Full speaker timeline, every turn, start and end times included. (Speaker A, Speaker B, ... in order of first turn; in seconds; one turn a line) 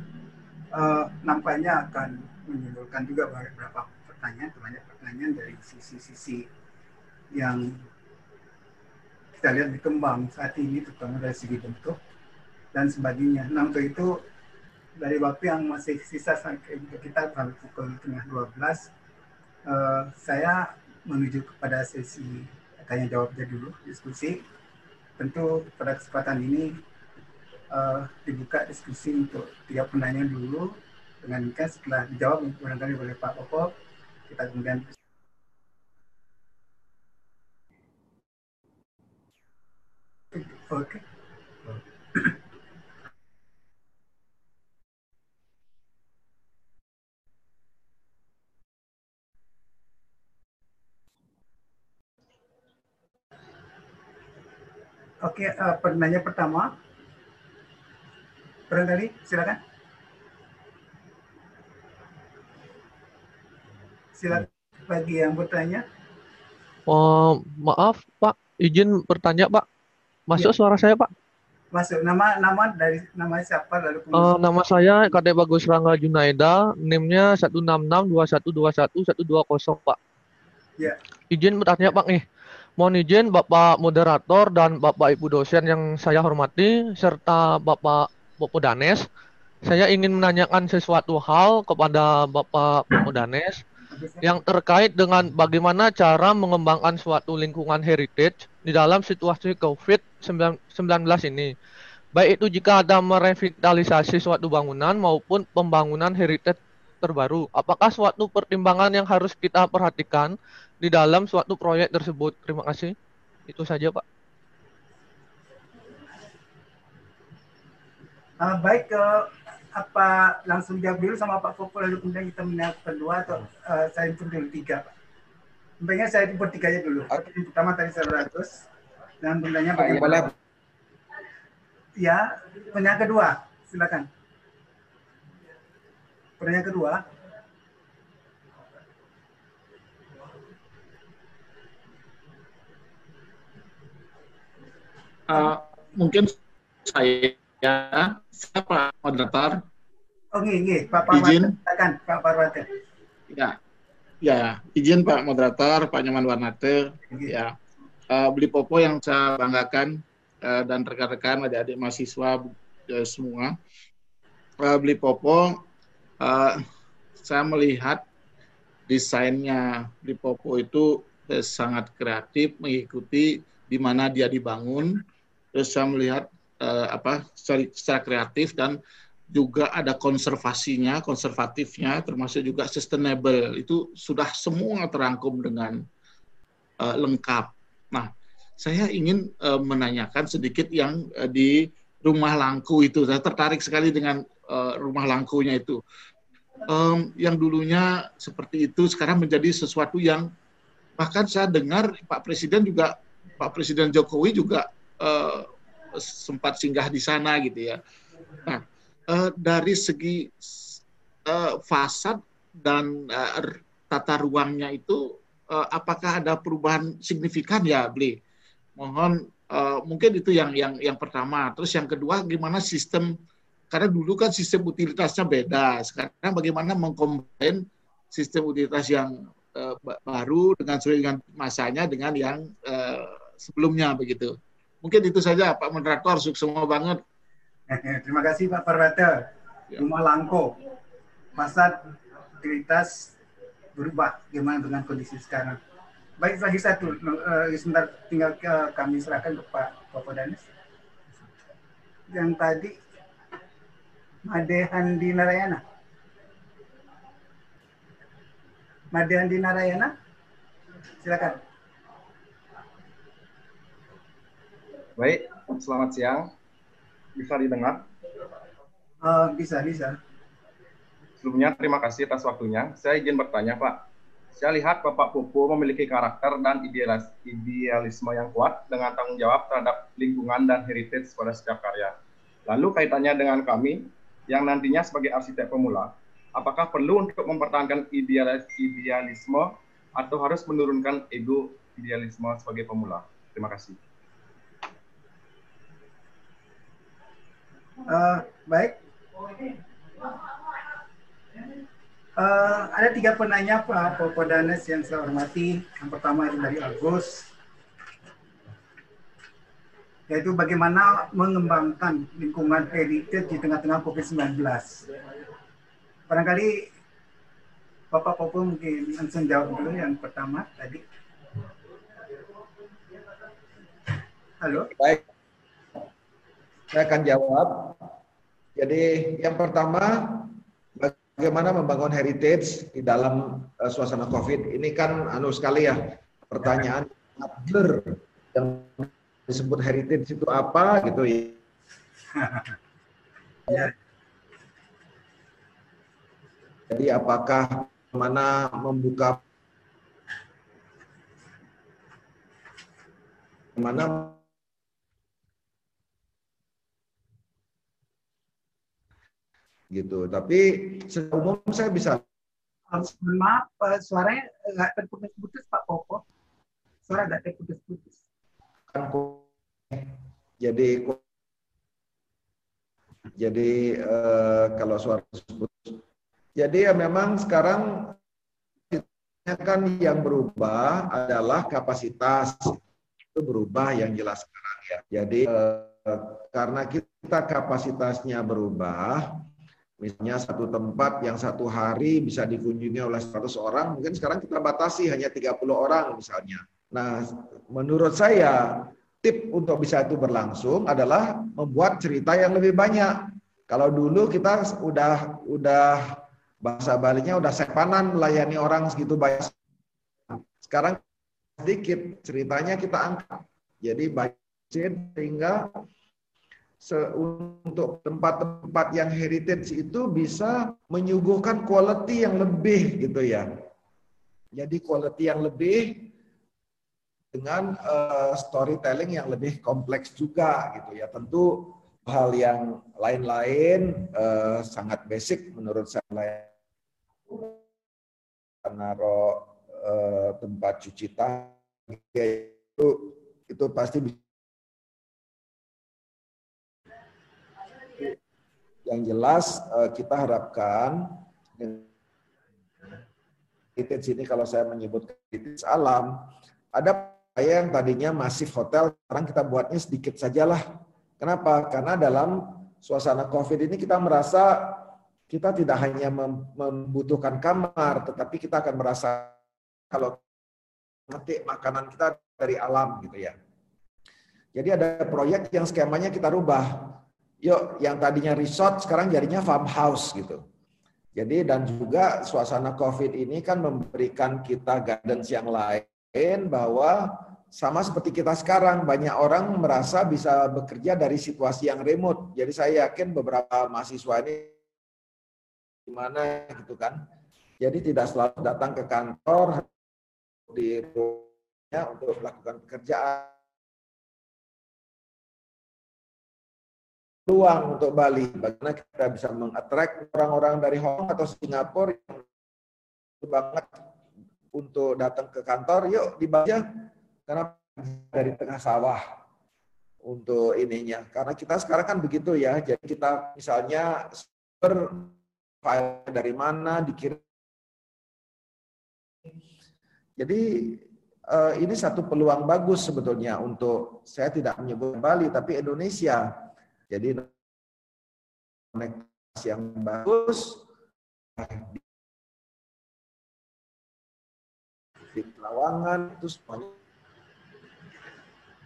Speaker A: 0.7-6.5
Speaker A: 7.3-7.8
Speaker A: 9.4-12.0
Speaker A: 12.7-14.2
Speaker A: 15.0-18.9
Speaker A: 19.7-24.4
Speaker A: 25.2-26.8
Speaker A: 27.7-33.7
Speaker A: 34.3-34.9
Speaker A: 40.3-41.0
Speaker A: 55.2-56.7
Speaker A: 58.7-59.6
Speaker A: 64.1-65.8
Speaker B: 66.9-69.7
Speaker B: 70.3-71.1
Speaker A: 71.7-74.4
Speaker B: 74.1-80.0
Speaker B: 81.3-82.2
Speaker B: 82.8-89.1
Speaker B: 89.6-93.6
Speaker A: 93.9-94.3
Speaker B: 94.2-101.5
Speaker B: 102.1-113.0
Speaker B: 113.5-114.0
Speaker A: 118.4-124.9
Speaker A: 125.8-128.6
Speaker A: 129.2-130.3
Speaker C: 129.8-130.2
Speaker A: 132.0-134.1
Speaker A: 136.4-137.0
Speaker D: 145.3-149.6
Speaker A: 150.3-152.7
Speaker D: 151.1-151.5
Speaker D: 153.3-153.6
Speaker D: 154.2-157.6
Speaker D: 158.1-163.6
Speaker D: 164.6-165.6
Speaker D: 166.2-166.6
Speaker D: 167.2-168.0
Speaker D: 168.9-175.0
Speaker D: 175.6-178.8
Speaker D: 179.3-185.8
Speaker D: 186.8-195.8
Speaker D: 196.7-200.3
Speaker D: 201.0-207.8
Speaker D: 208.4-218.2
Speaker D: 218.8-223.1
Speaker D: 223.7-227.6
Speaker D: 228.1-237.0
Speaker A: 237.7-240.6
Speaker A: 241.3-241.9
Speaker A: 242.4-243.1
Speaker A: 243.8-245.6
Speaker A: 246.2-250.5
Speaker A: 252.1-252.8
Speaker A: 254.2-255.6
Speaker A: 258.9-259.9
Speaker A: 261.0-261.4
Speaker E: 265.0-266.3
Speaker E: 267.2-267.9
Speaker A: 269.0-270.0
Speaker E: 271.2-281.9
Speaker E: 282.5-293.8
Speaker A: 297.9-298.8
Speaker A: 302.2-307.3
Speaker A: 310.1-314.9
Speaker A: 316.1-316.6
Speaker A: 317.9-320.8
Speaker A: 324.4-324.7
Speaker C: 324.8-325.0
Speaker C: 326.7-327.8
Speaker C: 328.6-341.4
Speaker A: 342.1-342.6
Speaker C: 346.7-349.2
Speaker C: 353.6-354.2
Speaker C: 359.7-362.0
Speaker A: 362.7-366.0
Speaker A: 366.9-368.0
Speaker C: 368.7-371.0
Speaker C: 373.1-375.8
Speaker C: 376.4-378.0
Speaker C: 378.7-382.6
Speaker C: 383.1-389.2
Speaker C: 389.8-409.3
Speaker C: 410.4-410.8
Speaker C: 411.4-415.5
Speaker C: 416.6-423.3
Speaker C: 424.3-425.9
Speaker C: 427.1-436.3
Speaker C: 437.1-437.4
Speaker C: 438.4-444.0
Speaker C: 448.7-451.7
Speaker C: 453.6-460.4
Speaker C: 461.0-469.2
Speaker C: 469.7-470.0
Speaker C: 470.9-473.2
Speaker C: 474.4-480.2
Speaker C: 480.9-494.3
Speaker C: 495.7-496.8
Speaker C: 497.4-499.5
Speaker C: 500.3-503.1
Speaker C: 507.1-512.0
Speaker C: 513.0-513.5
Speaker C: 514.3-516.4
Speaker C: 517.1-518.8
Speaker C: 519.9-527.0
Speaker C: 530.0-536.2
Speaker C: 536.7-537.1
Speaker C: 538.5-540.5
Speaker C: 541.2-541.6
Speaker C: 544.9-546.6